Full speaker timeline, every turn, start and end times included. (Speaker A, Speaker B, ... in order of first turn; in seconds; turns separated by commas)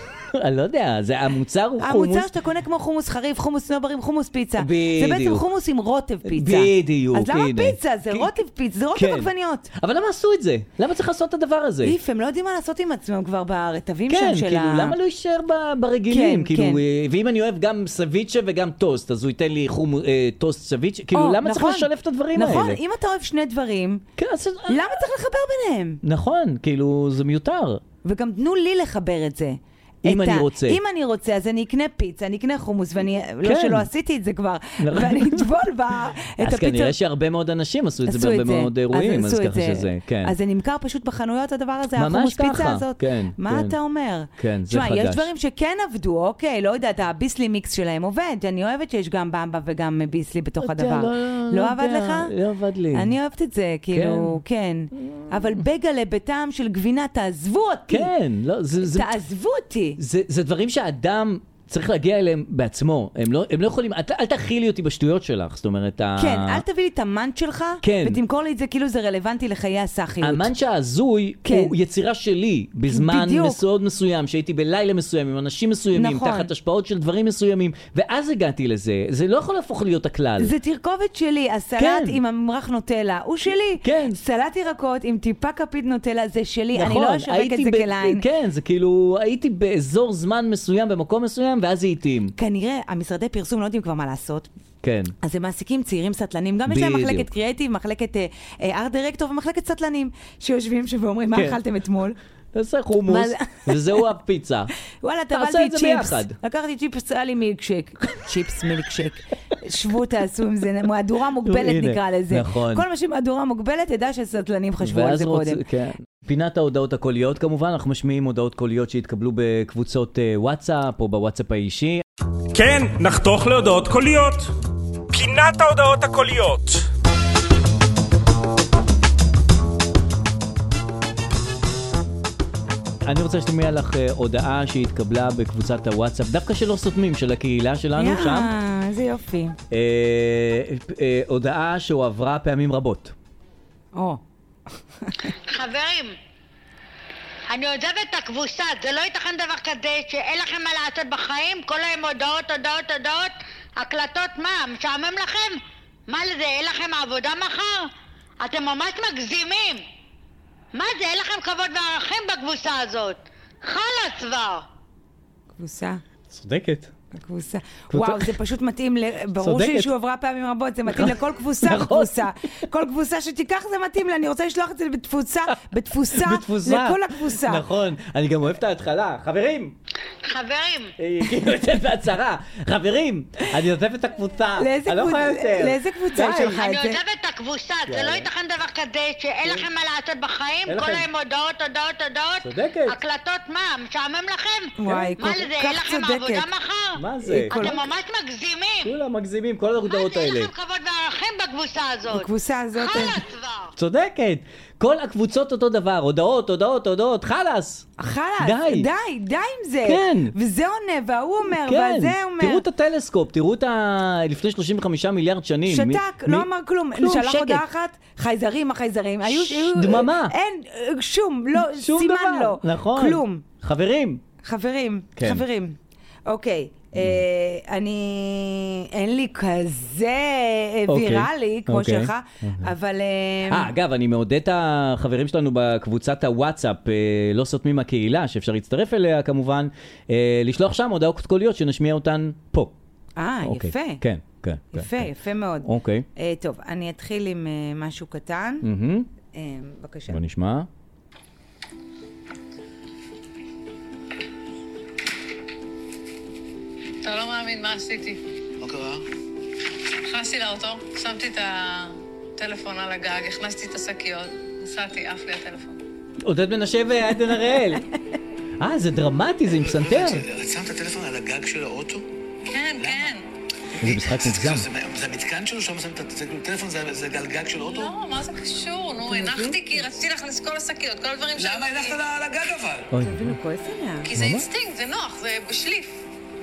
Speaker A: 0.3-2.3, Speaker B: 1.8-9.7, Speaker A: 4.6-5.5, Speaker A: 6.2-8.3, Speaker A: 8.9-11.9, Speaker B: 11.8-15.0, Speaker A: 14.1-22.8, Speaker B: 16.1-16.8, Speaker B: 21.1-24.1, Speaker A: 24.2-24.9, Speaker B: 24.7-26.0, Speaker A: 26.0-27.8, Speaker B: 28.0-37.0, Speaker A: 30.0-30.8, Speaker A: 33.4-33.9, Speaker A: 34.8-35.5, Speaker A: 36.4-40.3, Speaker B: 38.0-52.3, Speaker A: 42.0-43.8, Speaker A: 44.4-45.3, Speaker A: 50.6-53.1, Speaker B: 52.9-58.1, Speaker A: 53.9-54.4, Speaker A: 55.0-55.3, Speaker A: 57.9-59.1, Speaker B: 58.8-60.0, Speaker A: 60.0-66.6, Speaker B: 66.2-70.5, Speaker A: 67.8-68.2, Speaker A: 70.2-80.5, Speaker B: 71.5-71.8, Speaker B: 72.9-73.6, Speaker B: 75.9-76.5, Speaker B: 80.4-88.2, Speaker A: 81.8-82.2, Speaker A: 83.8-84.2, Speaker A: 86.7-92.3, Speaker B: 92.4-94.5, Speaker A: 94.8-95.1, Speaker B: 95.2-102.2, Speaker A: 96.7-97.3, Speaker A: 102.5-104.7, Speaker B: 103.1-104.1, Speaker B: 104.8-115.6, Speaker A: 105.3-106.4, Speaker A: 111.4-112.9, Speaker A: 114.8-122.0, Speaker C: 122.5-124.5, Speaker C: 125.1-126.9, Speaker A: 133.1-138.5, Speaker B: 137.9-139.6, Speaker A: 139.7-143.1, Speaker B: 143.9-144.2, Speaker B: 145.0-145.3, Speaker D: 145.5-146.1, Speaker D: 147.5-157.9, Speaker D: 158.4-159.8, Speaker D: 160.7-164.6, Speaker B: 165.6-166.0, Speaker A: 166.3-166.9, Speaker B: 167.1-177.7, Speaker A: 167.9-168.4, Speaker A: 169.4-169.9, Speaker A: 170.9-172.3, Speaker A: 176.1-179.8, Speaker D: 180.2-180.9, Speaker A: 181.0-186.6, Speaker B: 184.6-187.0, Speaker D: 186.3-198.9, Speaker A: 187.9-188.3, Speaker A: 190.7-191.1, Speaker A: 192.4-192.9, Speaker B: 194.8-196.5, Speaker A: 194.8-195.2, Speaker A: 196.9-197.8, Speaker B: 197.5-197.9, Speaker A: 198.8-200.5, Speaker D: 199.9-203.7, Speaker B: 202.1-203.2, Speaker A: 203.8-207.9, Speaker B: 208.0-212.7, Speaker A: 208.4-208.9, Speaker A: 209.8-210.3, Speaker A: 211.6-217.6, Speaker B: 215.7-223.4, Speaker A: 219.3-220.3, Speaker A: 221.6-224.2, Speaker B: 224.4-233.7, Speaker A: 225.2-225.4, Speaker A: 230.9-232.7, Speaker A: 233.5-242.7, Speaker B: 243.2-244.0, Speaker A: 243.4-245.1, Speaker B: 244.7-248.7, Speaker A: 245.6-246.1, Speaker A: 248.6-249.1, Speaker B: 249.2-250.2, Speaker A: 250.1-250.7, Speaker E: 257.0-258.2, Speaker F: 258.6-259.0, Speaker E: 260.1-265.8, Speaker A: 266.2-267.9, Speaker A: 268.6-270.3, Speaker F: 269.6-273.1, Speaker E: 272.5-273.3, Speaker F: 273.7-278.0, Speaker A: 273.8-274.7, Speaker E: 277.6-282.0, Speaker B: 279.0-279.8, Speaker F: 281.4-282.9, Speaker A: 282.9-283.4, Speaker B: 283.0-284.1, Speaker E: 284.0-286.0, Speaker A: 284.1-284.5